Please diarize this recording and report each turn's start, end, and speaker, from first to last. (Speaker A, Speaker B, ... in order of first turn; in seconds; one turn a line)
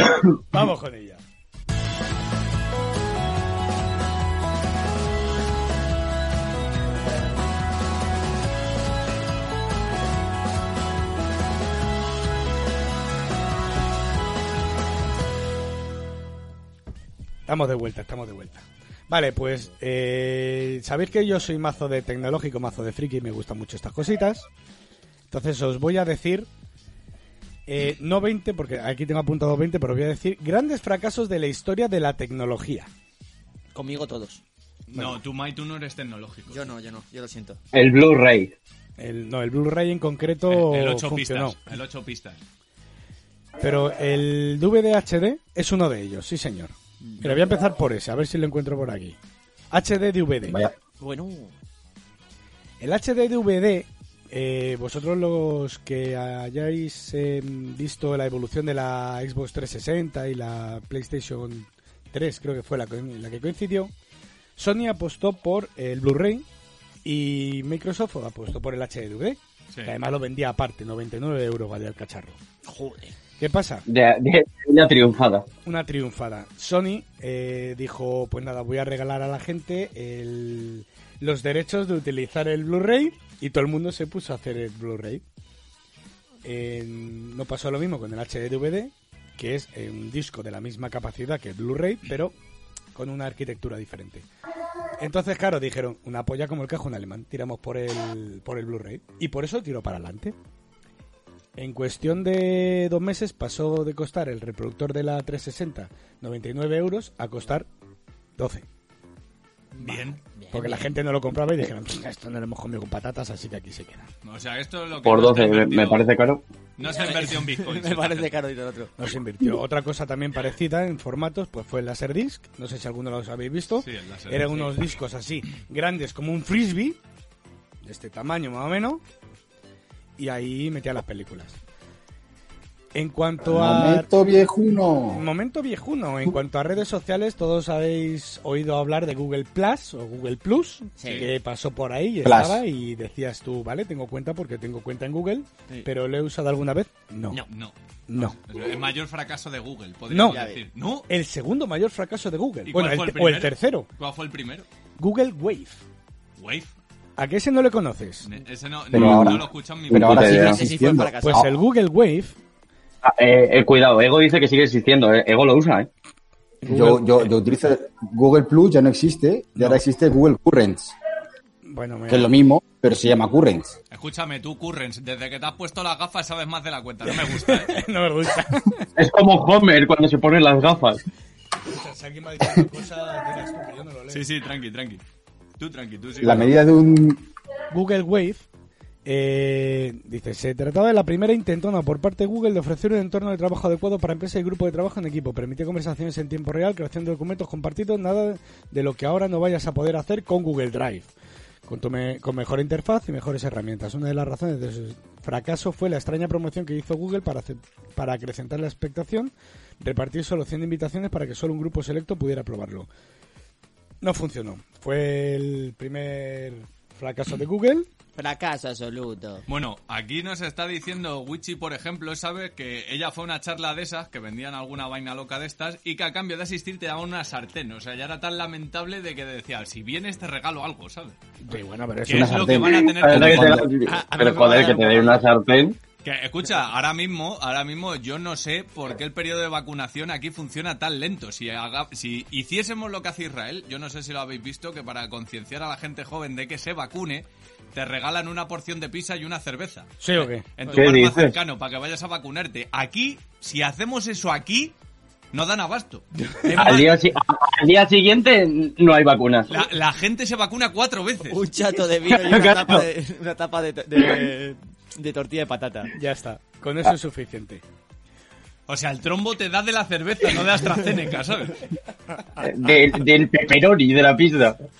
Speaker A: 0.5-1.2
Speaker A: 17.5-24.5
Speaker A: 25.3-26.5
Speaker A: 27.7-32.9
Speaker B: 33.7-34.4
Speaker C: 34.9-36.7
Speaker B: 36.5-37.6
Speaker D: 37.7-38.5
Speaker A: 39.0-41.7
Speaker C: 40.5-42.4
Speaker A: 43.6-49.1
Speaker A: 49.7-50.6
Speaker E: 50.5-50.7
Speaker B: 51.0-51.5
Speaker A: 52.8-63.9
Speaker A: 64.6-66.4
Speaker A: 67.0-72.4
Speaker B: 72.7-73.1
Speaker A: 73.4-73.8
Speaker D: 73.9-75.5
Speaker A: 75.6-85.2
Speaker A: 86.4-92.3
Speaker A: 92.9-94.3
Speaker A: 95.0-100.3
Speaker A: 101.6-107.7
Speaker A: 108.4-108.6
Speaker B: 109.8-110.9
Speaker C: 109.8-110.2
Speaker A: 110.5-114.1
Speaker C: 114.2-116.0
Speaker D: 115.0-116.4
Speaker C: 116.8-118.4
Speaker B: 116.9-118.9
Speaker A: 119.0-127.0
Speaker C: 123.8-124.7
Speaker A: 127.8-129.0
Speaker A: 130.2-131.6
Speaker A: 132.9-134.1
Speaker E: 133.4-135.2
Speaker A: 135.1-147.4
Speaker B: 141.0-141.3
Speaker C: 141.0-141.3
Speaker E: 142.2-142.6
Speaker C: 147.5-151.1
Speaker A: 148.1-148.3
Speaker A: 150.1-150.4
Speaker B: 150.2-150.6
Speaker A: 151.1-153.9
Speaker C: 152.7-154.7
Speaker A: 155.0-155.8
Speaker C: 156.4-156.7
Speaker A: 157.2-158.3
Speaker C: 158.2-160.5
Speaker E: 158.9-161.5
Speaker D: 159.0-159.3
Speaker D: 159.9-160.6
Speaker B: 160.3-161.5
Speaker A: 161.2-162.3
Speaker D: 163.0-165.9
Speaker A: 166.6-167.3
Speaker E: 166.7-170.9
Speaker A: 171.7-172.3
Speaker E: 172.1-173.7
Speaker C: 173.9-177.8
Speaker A: 177.1-178.8
Speaker D: 179.0-181.0
Speaker A: 181.7-184.2
Speaker C: 184.1-185.0
Speaker C: 185.6-186.6
Speaker E: 186.2-187.2
Speaker A: 187.7-188.5
Speaker A: 189.1-201.1
Speaker A: 201.7-212.9
Speaker A: 214.0-217.9
Speaker B: 218.2-219.4
Speaker C: 219.5-231.2
Speaker A: 231.4-232.5
Speaker C: 232.1-233.7
Speaker E: 232.1-233.7
Speaker D: 232.9-235.8
Speaker B: 233.8-235.2
Speaker C: 236.0-254.7
Speaker A: 250.0-250.4
Speaker D: 250.7-251.3
Speaker C: 255.3-256.9
Speaker A: 256.3-256.9
Speaker D: 256.5-259.5
Speaker C: 259.5-261.4
Speaker B: 261.2-265.9
Speaker D: 262.1-262.9
Speaker A: 265.9-267.6
Speaker C: 268.7-271.6
Speaker D: 272.4-274.6